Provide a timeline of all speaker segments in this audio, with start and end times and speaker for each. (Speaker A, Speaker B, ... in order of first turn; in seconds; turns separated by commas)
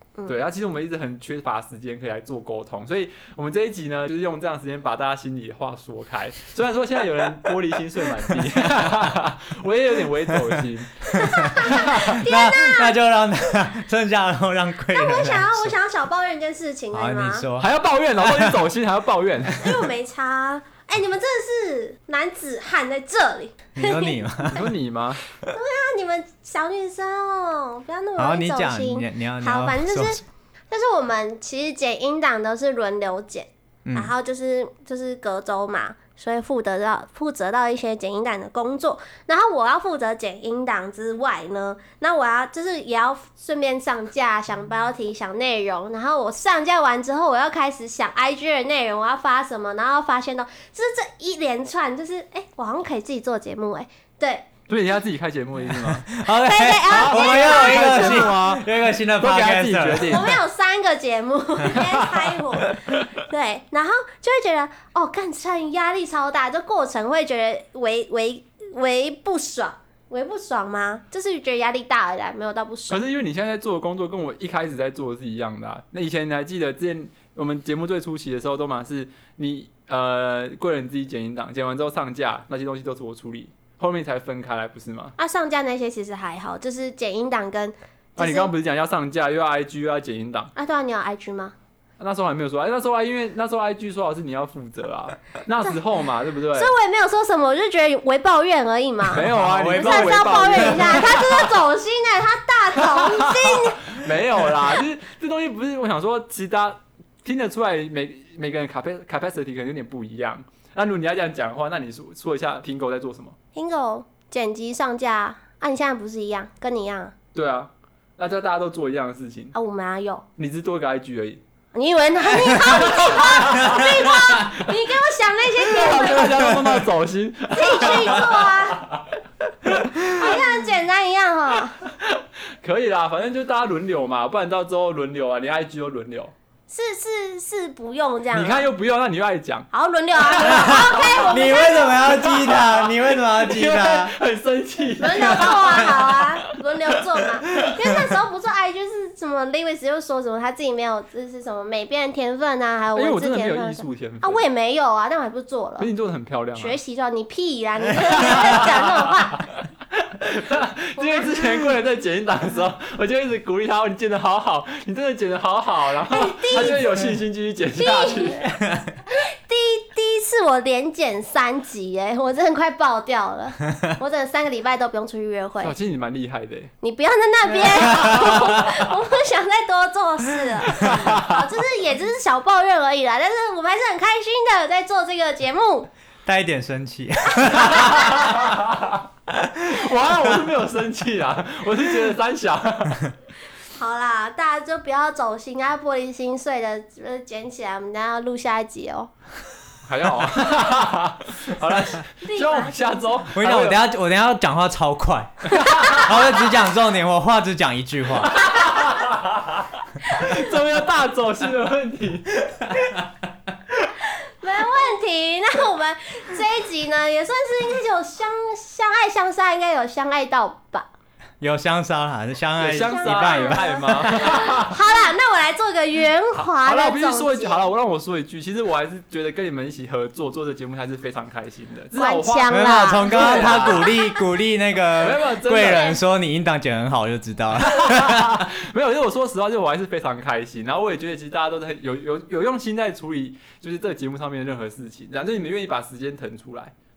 Speaker A: 0.3-12.2, Speaker B: 10.3-15.7, Speaker C: 11.1-12.9, Speaker C: 14.9-17.4, Speaker B: 16.9-17.7, Speaker A: 17.6-19.8, Speaker B: 18.2-18.5, Speaker C: 19.6-24.2, Speaker B: 23.7-24.7, Speaker A: 24.5-25.2, Speaker C: 25.5-54.5, Speaker B: 28.2-30.2, Speaker B: 33.9-34.1, Speaker A: 54.7-56.1, Speaker B: 55.7-60.3, Speaker C: 56.2-58.4, Speaker A: 56.9-58.7, Speaker A: 59.2-60.3, Speaker C: 60.0-73.0, Speaker A: 72.9-85.1, Speaker C: 85.2-88.5, Speaker A: 88.2-90.5, Speaker C: 90.5-91.5, Speaker A: 92.0-96.7, Speaker C: 96.5-103.9, Speaker A: 99.1-101.6, Speaker B: 99.2-101.0, Speaker A: 102.8-113.3, Speaker C: 113.5-117.1, Speaker A: 117.3-119.5, Speaker C: 119.5-120.2, Speaker A: 120.4-121.4, Speaker C: 121.7-126.3, Speaker B: 122.3-122.9, Speaker A: 122.8-124.8, Speaker A: 125.5-129.1, Speaker B: 126.3-126.7, Speaker C: 127.5-128.8, Speaker C: 130.0-131.8, Speaker A: 132.0-136.3, Speaker C: 136.7-138.6, Speaker A: 138.3-146.7, Speaker C: 139.7-142.2, Speaker B: 140.4-144.1, Speaker C: 145.0-155.9, Speaker A: 152.9-154.4, Speaker A: 155.8-156.8, Speaker C: 156.6-159.4, Speaker A: 158.1-159.4, Speaker A: 160.0-168.4, Speaker C: 160.9-161.7, Speaker C: 166.1-167.0, Speaker C: 167.8-168.5, Speaker B: 168.5-168.9, Speaker C: 169.1-175.7, Speaker A: 175.6-176.7, Speaker C: 176.8-185.9, Speaker A: 177.6-178.7, Speaker A: 180.7-181.4, Speaker B: 186.2-188.3, Speaker A: 187.5-189.0, Speaker B: 189.3-189.7, Speaker A: 189.6-193.1, Speaker C: 193.8-199.1, Speaker A: 199.8-203.8, Speaker C: 202.2-203.2, Speaker B: 203.3-208.6, Speaker A: 205.5-206.1, Speaker C: 205.7-206.0, Speaker A: 208.3-212.8, Speaker C: 210.1-210.5, Speaker C: 214.0-220.9, Speaker B: 221.4-224.3, Speaker A: 222.6-225.1, Speaker C: 222.8-227.6, Speaker A: 226.3-233.9, Speaker C: 232.0-234.2, Speaker B: 232.5-238.4, Speaker A: 235.0-235.9, Speaker C: 235.5-236.0, Speaker A: 237.6-246.7